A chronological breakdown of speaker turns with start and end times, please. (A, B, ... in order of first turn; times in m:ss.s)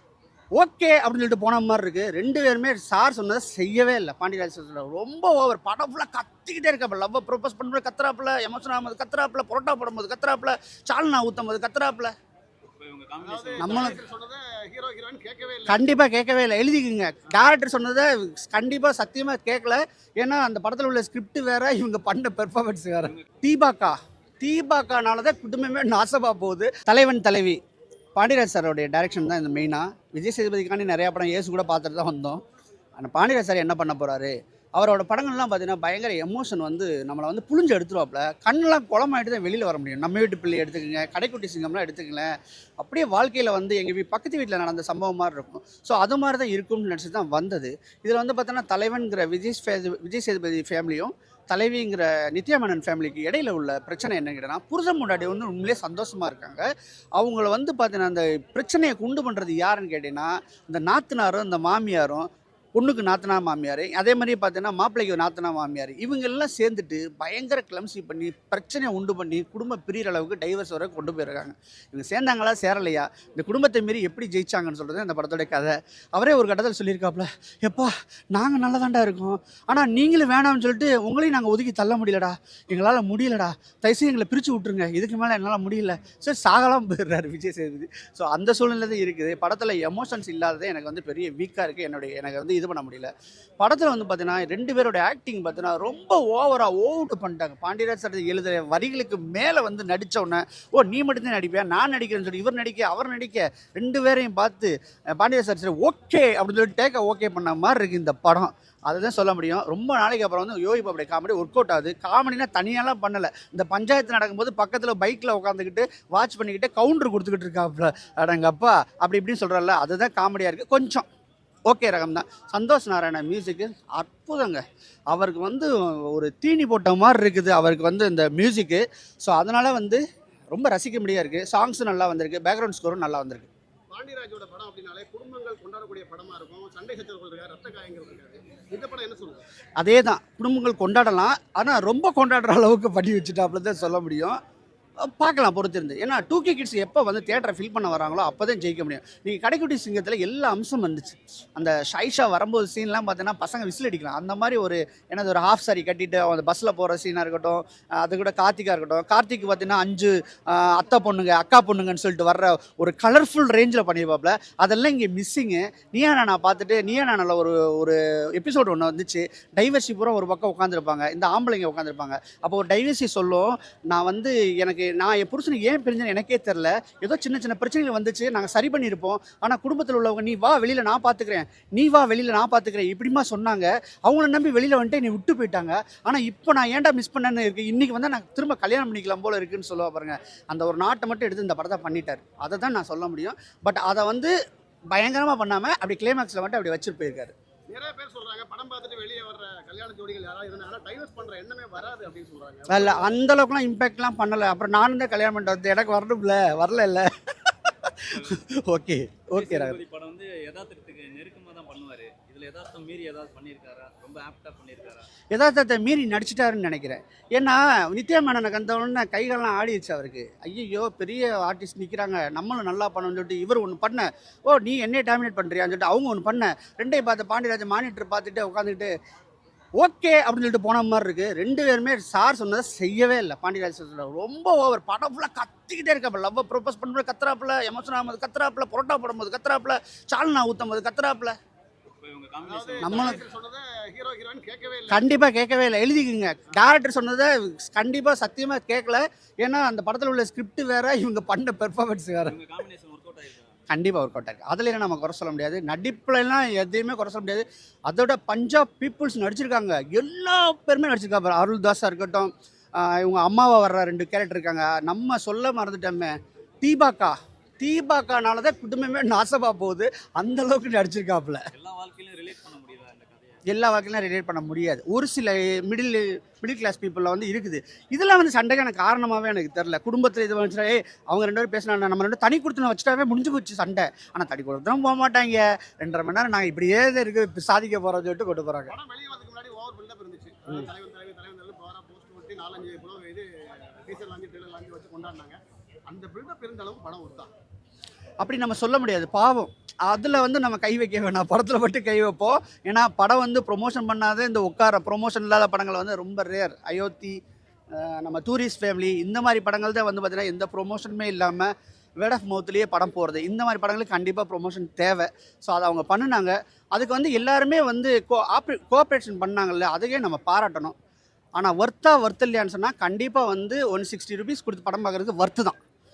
0:00.6-0:12.1 A
0:12.8-0:14.0 B
0:13.2-0:15.9 C
0:13.6-0:14.0 A
0:15.7-0:27.6 A
0:28.2-0:32.4 A
0:33.0-2:01.1 A
2:01.7-2:13.5 A
2:13.9-2:19.4 C
2:19.8-2:24.4 A
2:25.0-3:14.3 A
3:14.9-3:17.3 A
3:17.7-3:23.1 C
3:22.7-3:29.8 A
3:28.1-3:28.4 B
3:29.4-3:35.1 B
3:35.3-3:48.9 A
3:49.8-4:01.4 A
4:02.0-4:03.2 B
4:02.4-4:05.2 C
4:02.8-4:03.2 A
4:04.9-4:12.4 A
4:12.3-4:13.5 B
4:13.7-4:31.5 A
4:31.5-4:33.4 B
4:33.5-4:48.7 A
4:48.7-4:57.3 C
4:58.2-5:07.2 A
5:07.7-5:20.8 A
5:21.4-5:25.6 A